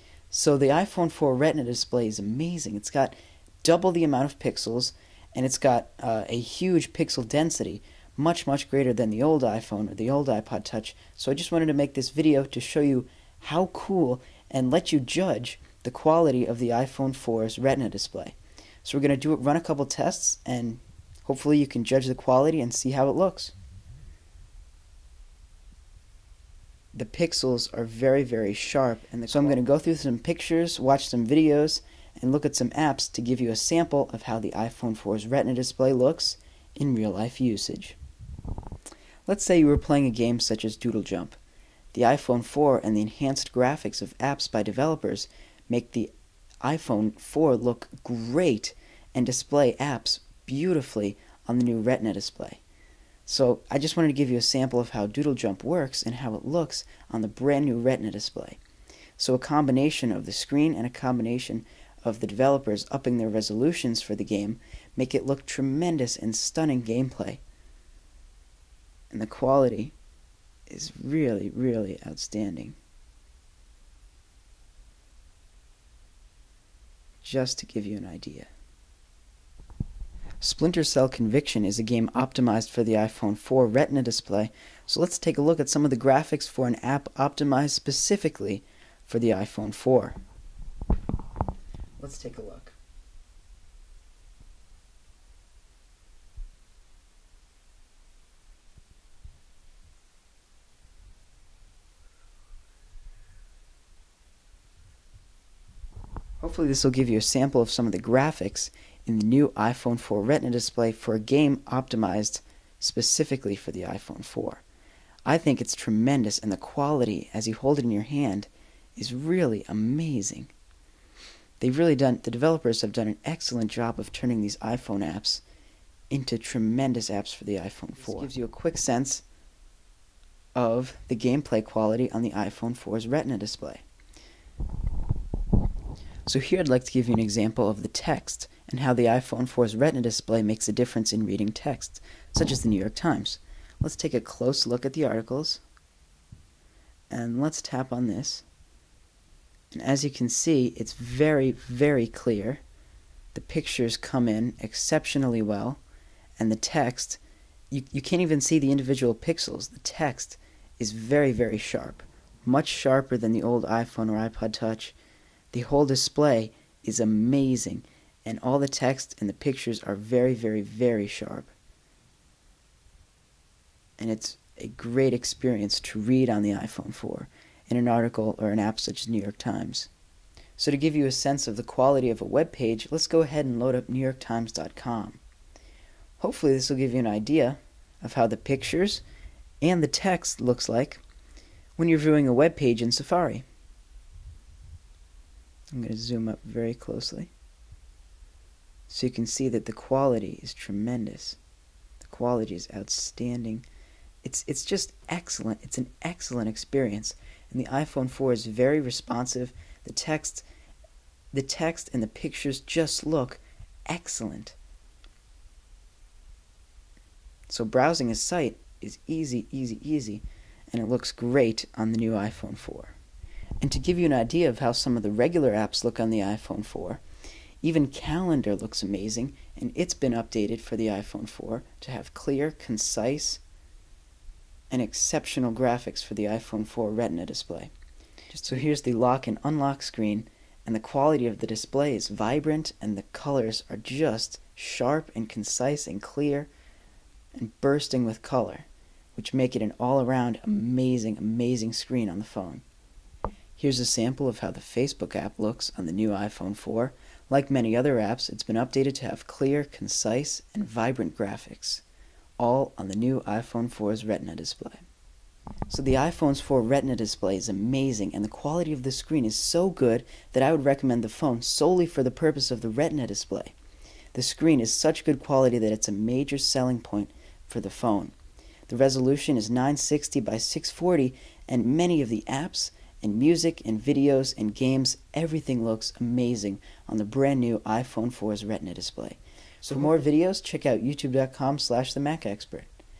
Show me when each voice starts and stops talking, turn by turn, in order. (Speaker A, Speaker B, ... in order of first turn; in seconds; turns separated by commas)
Speaker A: 0.3-23.5, Speaker A: 26.9-38.0, Speaker A: 39.3-41.4, Speaker A: 41.9-46.1, Speaker A: 46.6-52.6, Speaker A: 53.3-58.6, Speaker A: 59.2-67.4, Speaker A: 69.1-69.9, Speaker A: 70.7-72.8, Speaker A: 77.2-78.5, Speaker A: 80.4-90.2, Speaker A: 92.0-92.8, Speaker A: 106.4-114.6, Speaker A: 115.2-120.5, Speaker A: 121.6-125.4, Speaker A: 126.1-129.2, Speaker A: 130.6-133.8, Speaker A: 136.2-145.6, Speaker A: 147.1-148.4, Speaker A: 149.7-152.6, Speaker A: 153.3-155.8, Speaker A: 156.4-157.2, Speaker A: 157.7-164.9, Speaker A: 165.5-171.5, Speaker A: 174.0-179.9, Speaker A: 180.6-185.2, Speaker A: 186.2-189.0, Speaker A: 189.6-191.0, Speaker A: 191.8-193.4, Speaker A: 195.7-197.3, Speaker A: 198.9-201.4, Speaker A: 202.0-203.7, Speaker A: 204.2-210.4, Speaker A: 211.3-214.6, Speaker A: 217.5-222.9, Speaker A: 223.6-227.0, Speaker A: 227.6-233.4, Speaker A: 234.7-237.7, Speaker A: 238.3-246.5, Speaker A: 247.3-252.6, Speaker A: 253.6-261.8, Speaker A: 262.4-264.8, Speaker A: 265.7-273.5, Speaker A: 274.1-278.1, Speaker A: 278.7-292.7